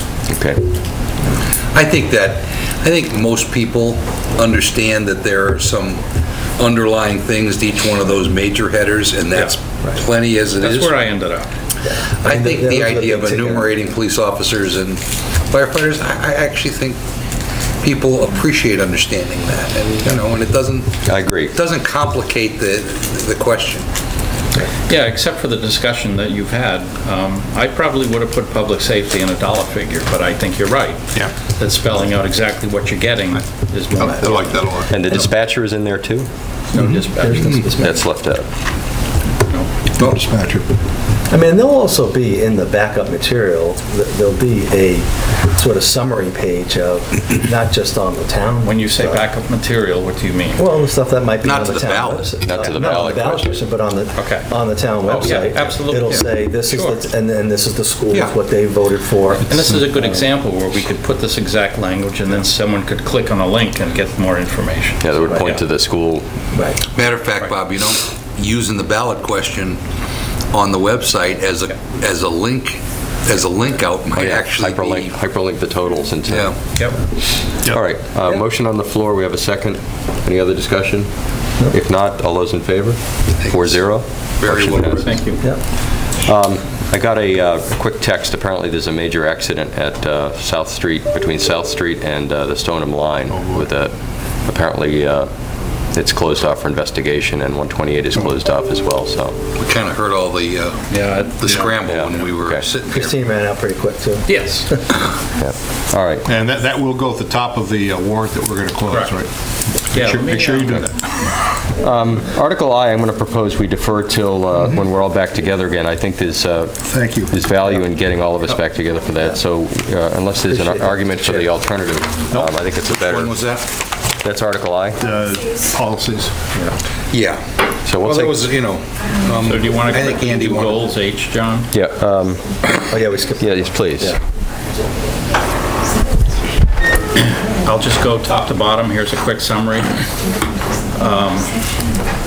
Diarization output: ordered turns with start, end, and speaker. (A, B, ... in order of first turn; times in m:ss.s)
0:00.3-0:00.6 A
0:01.7-0:06.0 B
0:06.6-0:11.0 B
0:10.6-0:11.5 C
0:11.8-0:13.7 D
0:12.2-0:17.0 B
0:17.8-0:23.9 B
0:21.0-0:21.5 A
0:24.9-0:34.6 C
0:34.0-0:35.0 E
0:34.9-0:36.3 A
0:36.7-0:37.6 C
0:36.7-0:38.0 D
0:37.7-0:38.5 A
0:40.0-0:40.6 E
0:41.3-0:49.2 D
0:48.6-0:50.6 C
0:50.6-1:00.2 D
0:51.4-0:52.3 B
0:52.3-0:53.6 A
0:54.1-0:54.5 C
0:55.0-0:57.0 C
0:59.5-1:05.6 C
1:05.0-1:06.2 A
1:06.5-1:06.8 D
1:06.9-1:09.8 B
1:10.5-1:15.2 B
1:14.1-1:16.5 A
1:16.3-1:16.6 B
1:17.7-1:25.0 A
1:23.4-1:23.8 B
1:24.4-1:25.2 B
1:24.9-1:25.4 C
1:26.2-1:33.9 A
1:33.3-1:33.7 E
1:34.4-1:35.3 A
1:35.9-1:39.5 A
1:39.5-1:40.9 B
1:40.9-1:41.7 C
1:41.4-1:43.2 B
1:41.4-1:41.7 E
1:41.8-1:42.6 A
1:42.9-1:44.8 D
1:44.3-1:44.7 C
1:45.4-1:46.2 A
1:46.2-1:50.9 E
1:48.9-1:49.1 C
1:49.8-1:51.0 C
1:51.8-2:03.3 A
1:56.8-1:57.3 E
2:00.5-2:01.1 D
2:02.3-2:02.6 E
2:03.1-2:03.6 B
2:04.2-2:05.0 A
2:05.0-2:06.7 E
2:07.1-2:07.4 B
2:07.8-2:08.4 A
2:07.9-2:10.8 B
2:09.4-2:11.7 C
2:11.7-2:12.5 A
2:12.9-2:14.2 D
2:13.4-2:14.1 A
2:17.2-2:20.0 C
2:20.9-2:21.6 C